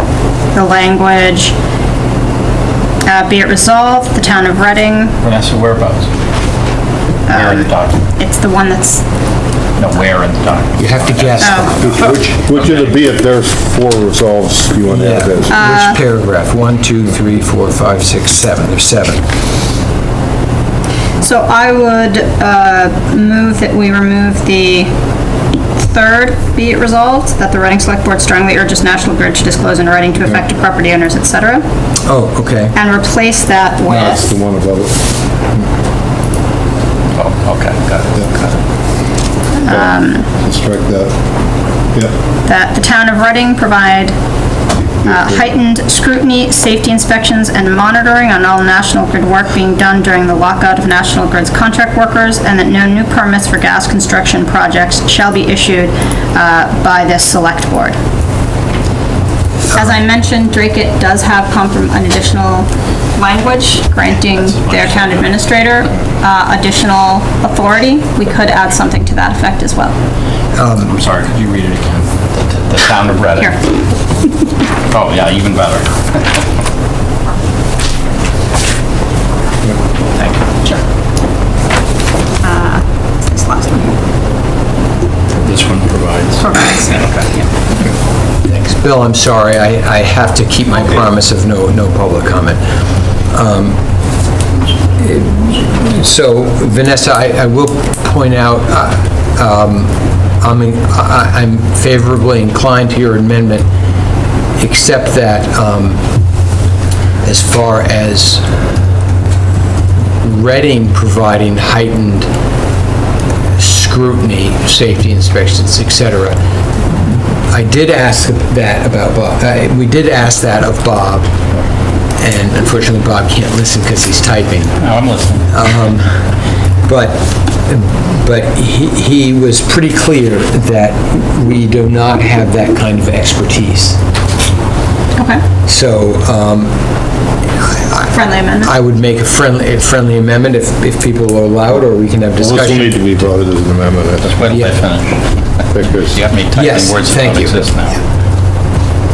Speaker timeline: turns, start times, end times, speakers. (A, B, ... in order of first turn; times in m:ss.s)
0:00.5-0:01.5 A
0:03.0-0:05.1 A
0:05.2-0:06.1 B
0:07.3-0:09.0 A
0:07.3-0:08.0 B
0:09.8-0:13.0 B
0:10.8-0:12.1 C
0:11.4-0:12.2 A
0:11.8-0:15.5 D
0:14.9-0:19.2 C
0:15.5-0:16.0 A
0:21.2-0:24.9 A
0:25.8-0:31.6 A
0:32.0-0:32.7 C
0:32.7-0:34.3 A
0:33.9-0:35.7 D
0:37.1-0:38.5 B
0:39.6-0:40.3 A
0:39.6-0:41.2 D
0:42.4-0:44.1 A
0:45.0-0:45.4 D
0:45.0-0:58.0 A
0:59.7-1:09.9 A
1:04.3-1:05.4 B
1:10.5-1:10.9 C
1:10.8-1:13.6 B
1:14.9-1:16.4 B
1:20.1-1:20.4 B
1:22.4-1:24.0 A
1:25.4-1:27.3 B
1:26.4-1:27.1 A
1:28.4-1:32.6 C
1:33.3-1:33.8 C
1:35.0-1:43.7 C
1:44.6-1:46.0 C
1:47.2-1:48.4 C
1:50.2-1:52.3 C
1:53.6-2:01.3 C
2:02.2-2:04.8 C
2:04.8-2:05.5 B
2:05.5-2:14.0 C
2:15.1-2:15.4 A
2:15.6-2:16.8 C
2:17.6-2:23.0 C
2:18.1-2:18.7 A
2:22.4-2:24.5 D
2:24.3-2:28.0 B
2:25.7-2:26.2 D
2:26.5-2:27.7 C